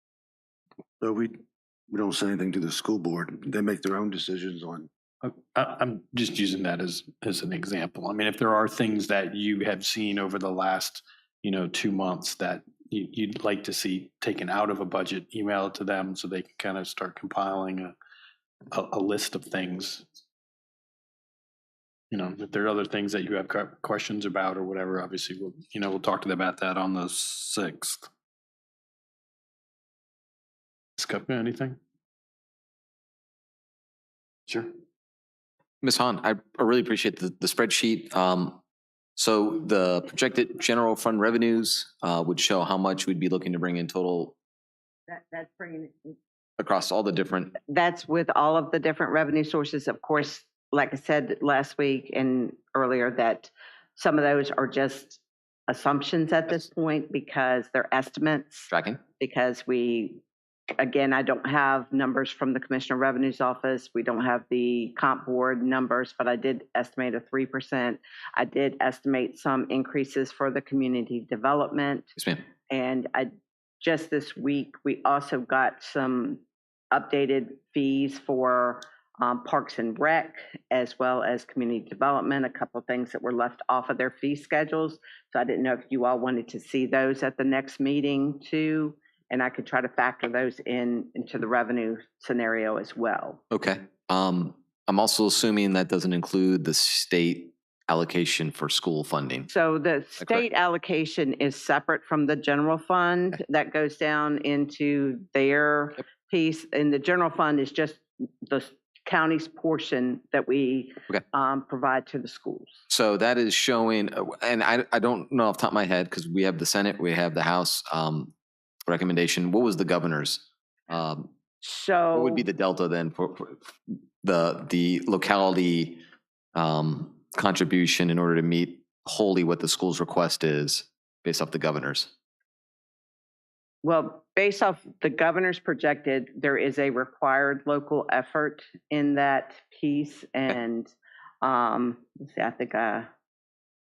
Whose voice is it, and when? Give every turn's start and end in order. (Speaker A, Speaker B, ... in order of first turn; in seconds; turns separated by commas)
Speaker A: 1.0-1.4, Speaker A: 1.9-4.9, Speaker B: 5.2-18.0, Speaker B: 18.7-20.1, Speaker B: 22.1-28.1, Speaker B: 31.0-31.8, Speaker C: 35.8-38.6, Speaker C: 39.2-44.4, Speaker D: 45.1-46.2, Speaker C: 46.6-47.6, Speaker D: 47.7-60.2, Speaker C: 58.7-59.0, Speaker D: 60.8-72.1, Speaker C: 72.2-72.4, Speaker D: 72.7-93.4, Speaker C: 93.5-99.5, Speaker D: 99.5-112.8, Speaker C: 112.9-118.3, Speaker C: 118.9-121.3, Speaker D: 121.6-122.5, Speaker C: 122.1-126.0, Speaker C: 126.5-132.1, Speaker D: 133.8-143.1